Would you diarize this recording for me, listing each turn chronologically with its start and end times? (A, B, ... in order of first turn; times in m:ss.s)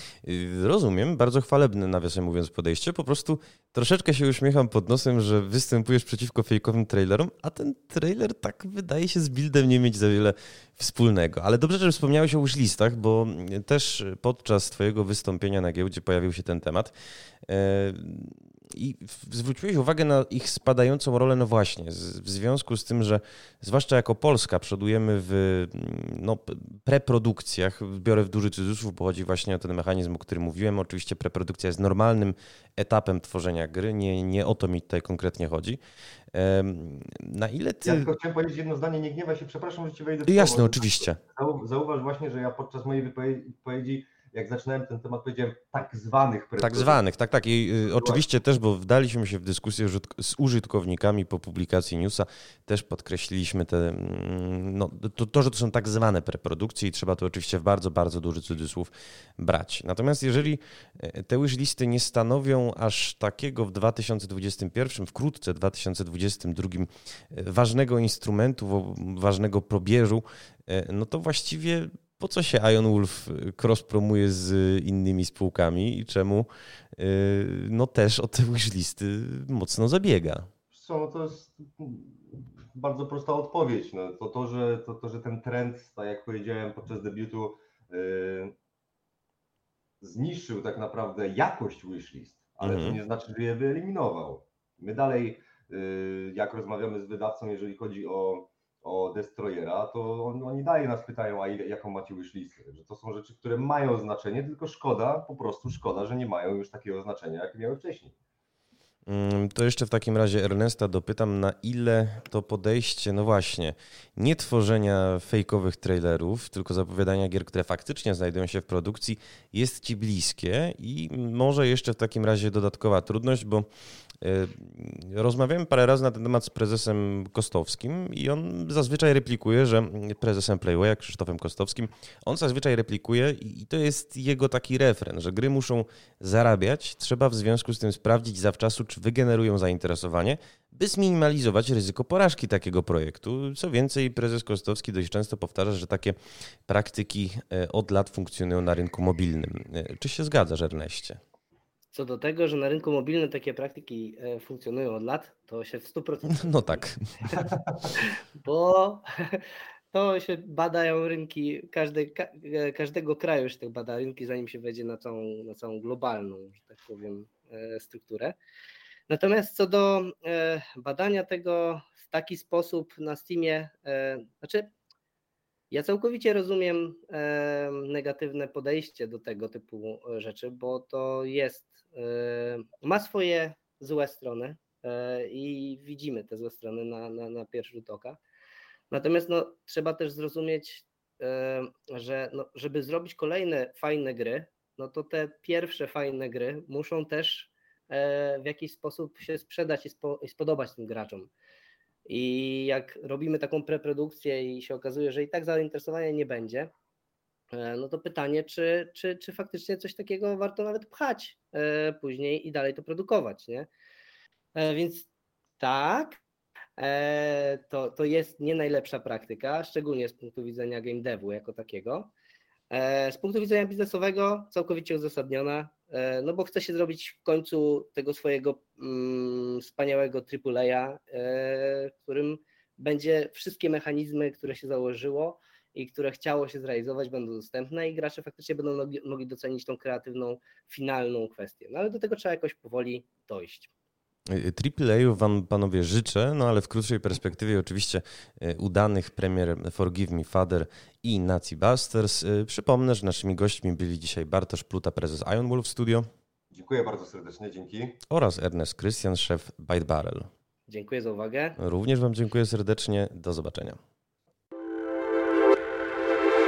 0:00.2-0:16.9 A
0:17.5-0:35.8 A
0:36.3-0:38.1 A
0:37.8-0:47.0 B
0:40.2-0:41.2 A
0:46.6-1:20.5 A
0:48.0-0:48.2 B
1:20.7-1:28.5 B
1:30.0-1:48.1 B
1:32.6-1:33.0 A
1:49.0-2:03.6 A
2:04.2-2:26.2 A
2:26.7-2:31.2 A
2:31.9-2:37.4 C
2:36.3-2:37.4 A
2:38.0-2:48.4 C
2:49.1-2:54.7 C
2:55.7-3:08.2 C
3:08.9-3:21.3 C
3:22.1-3:26.7 C
3:27.5-3:33.7 C
3:34.5-3:35.1 C
3:35.6-3:36.2 C
3:36.8-3:42.1 C
3:42.7-4:03.7 C
4:04.3-4:16.1 A
4:16.5-4:18.0 B
4:18.1-4:20.3 A
4:20.7-4:21.6 C
4:21.6-4:23.8 A